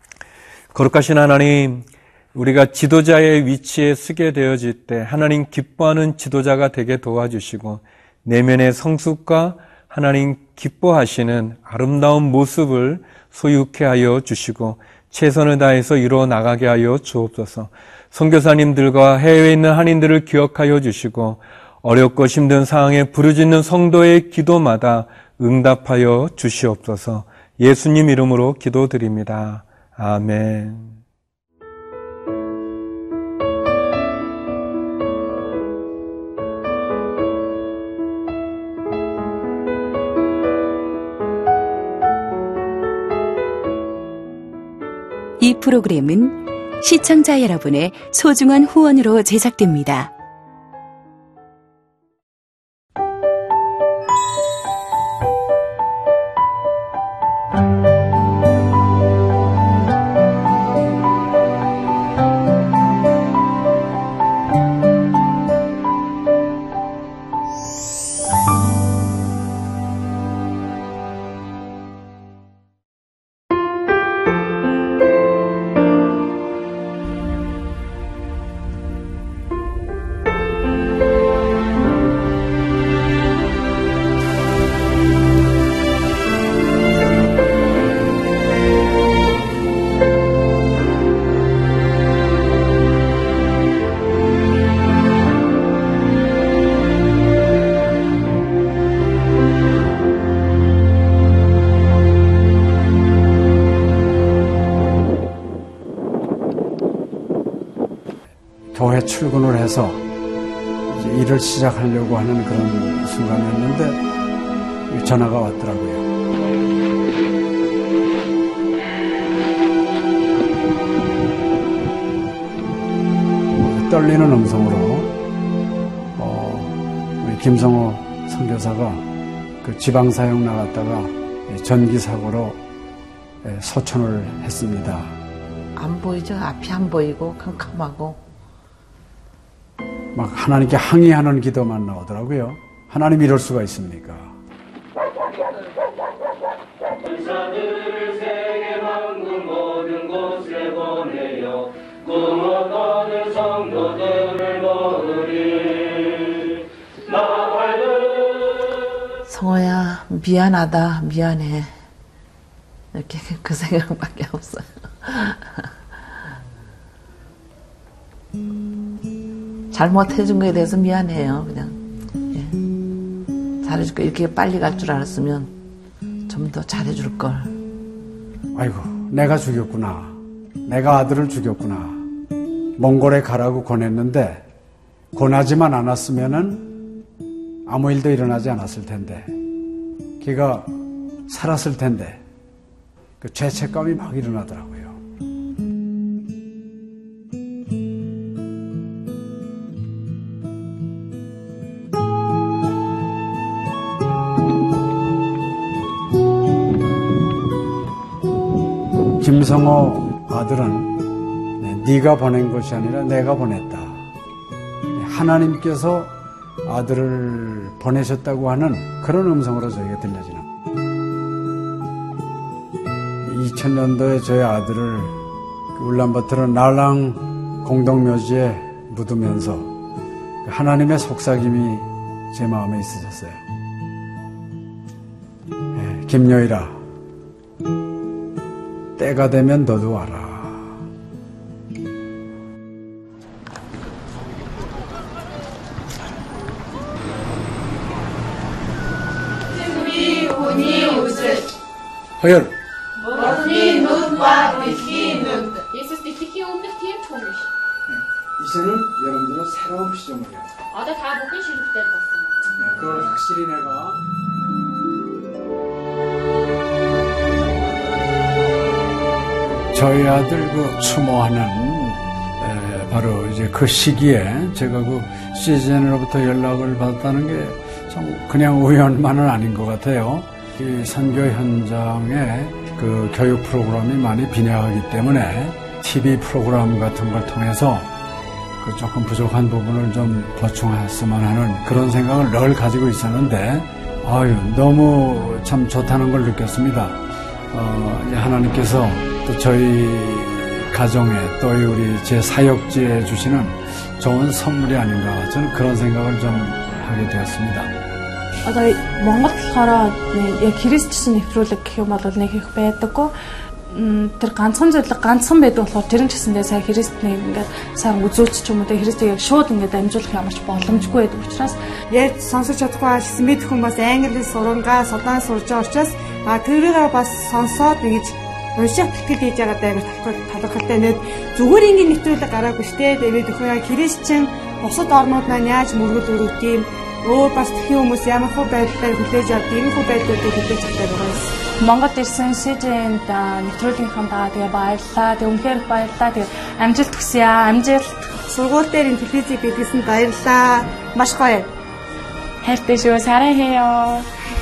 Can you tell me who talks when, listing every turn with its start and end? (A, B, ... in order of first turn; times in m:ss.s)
0:00.7-0:31.0 A
0:45.4-0:50.1 B
1:48.7-1:50.0 C
1:50.9-1:54.0 C
1:54.9-1:56.1 C
2:03.6-2:05.1 C
2:06.2-2:09.0 C
2:09.6-2:12.6 C
2:13.4-2:15.1 C
2:15.8-2:18.2 D
2:20.1-2:24.3 C
2:39.3-2:41.8 D
2:42.9-2:45.7 D
2:49.7-2:52.6 D
2:53.6-2:55.5 D
2:56.3-2:57.6 D
2:58.5-3:02.0 C
3:02.8-3:04.4 C
3:05.1-3:06.7 C
3:07.6-3:09.3 C
3:10.2-3:10.7 C
3:11.3-3:12.2 C
3:13.2-3:15.0 C
3:29.2-3:31.0 C
3:31.6-3:34.0 C
3:34.9-3:40.4 C
3:43.2-3:45.2 C
3:45.7-3:49.7 C
3:50.4-3:53.4 C
3:55.7-3:56.8 C
3:59.0-4:00.7 C
4:12.2-4:12.5 C
4:14.1-4:17.5 E
4:17.9-4:20.5 C
4:20.7-4:22.4 E
4:22.6-4:24.0 C
4:29.7-4:47.9 C
4:48.6-4:57.0 C
4:57.5-5:07.8 C
5:08.4-5:13.1 F
5:13.7-5:21.6 F
5:21.9-5:41.3 G
5:41.6-5:47.9 F
5:48.3-5:51.5 G
5:52.4-5:54.0 F